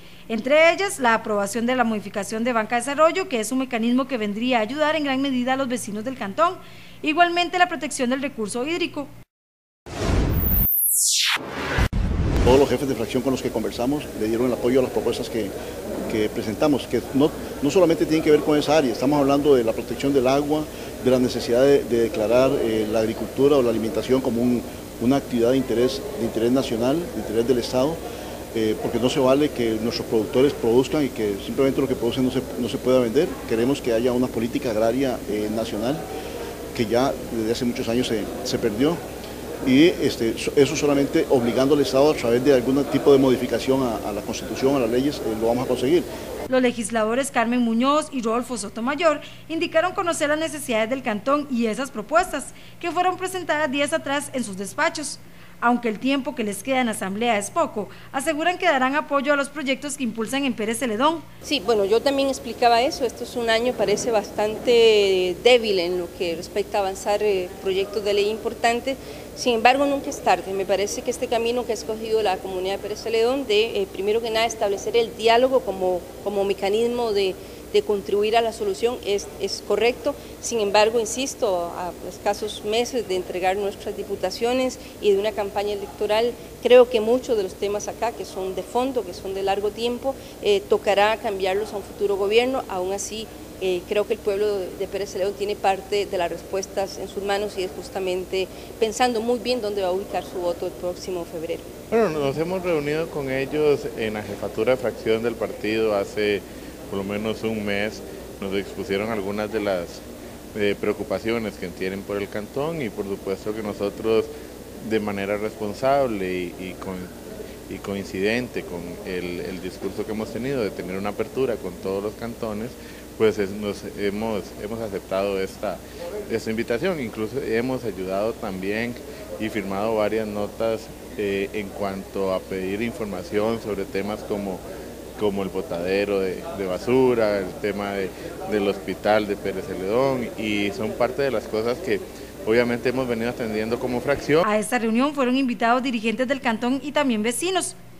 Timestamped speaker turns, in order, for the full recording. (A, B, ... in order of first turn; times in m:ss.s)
0:00.3-0:09.1 A
0:12.4-0:15.5 B
0:16.0-0:28.0 B
0:28.5-0:36.0 B
0:36.7-0:39.0 B
0:39.6-0:46.1 B
0:46.5-1:01.2 A
1:01.4-1:41.6 C
1:41.9-1:50.0 D
1:50.5-1:57.1 D
1:57.7-2:14.6 D
2:15.2-2:24.4 D
2:24.4-2:27.8 A